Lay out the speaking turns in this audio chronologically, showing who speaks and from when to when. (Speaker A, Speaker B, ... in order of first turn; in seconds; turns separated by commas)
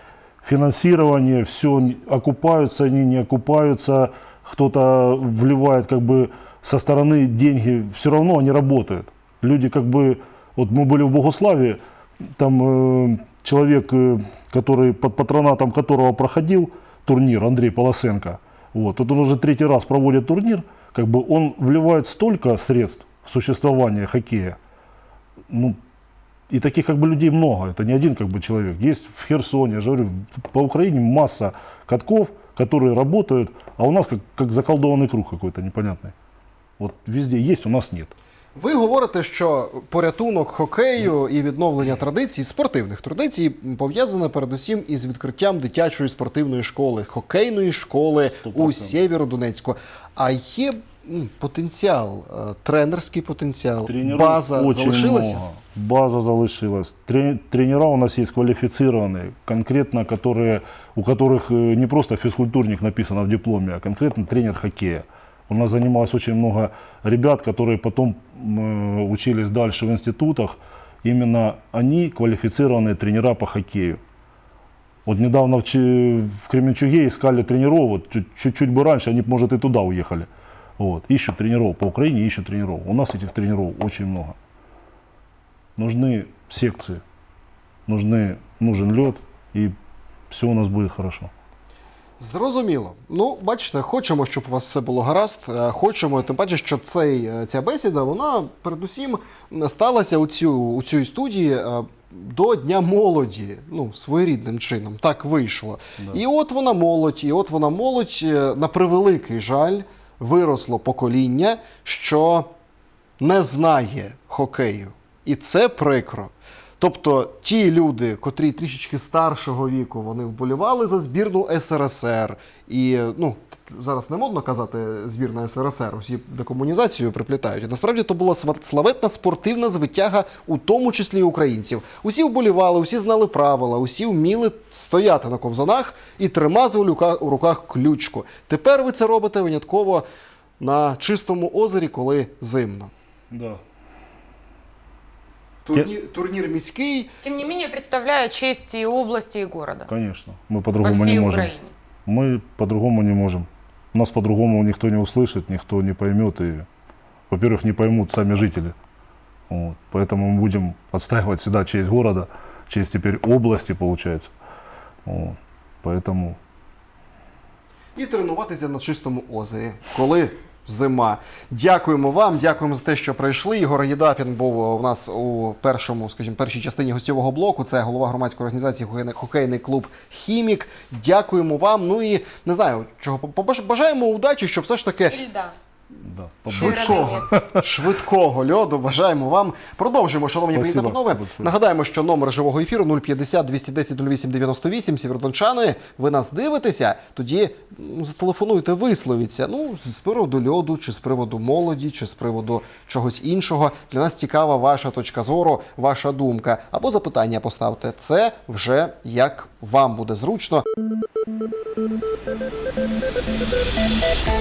Speaker A: 0.4-11.8, Speaker A: 12.4-24.6, Speaker A: 25.5-25.8, Speaker A: 26.5-36.1, Speaker A: 36.8-38.1, Speaker B: 38.5-55.4, Speaker A: 48.4-49.0, Speaker A: 53.9-74.0, Speaker A: 75.1-80.3, Speaker A: 80.8-84.4, Speaker A: 85.8-87.0, Speaker A: 87.9-89.8, Speaker A: 90.3-91.3, Speaker B: 92.2-112.5, Speaker B: 113.2-140.1, Speaker B: 140.6-142.9, Speaker A: 143.3-143.6, Speaker B: 145.7-147.1, Speaker C: 147.2-149.9, Speaker A: 149.9-151.5, Speaker C: 150.8-151.7, Speaker A: 152.1-156.7, Speaker A: 157.3-158.8, Speaker A: 159.5-164.3, Speaker A: 165.1-166.4, Speaker B: 167.9-185.2, Speaker C: 185.1-185.6, Speaker A: 186.0-187.6, Speaker B: 186.5-210.6, Speaker C: 186.5-187.3, Speaker A: 190.5-191.5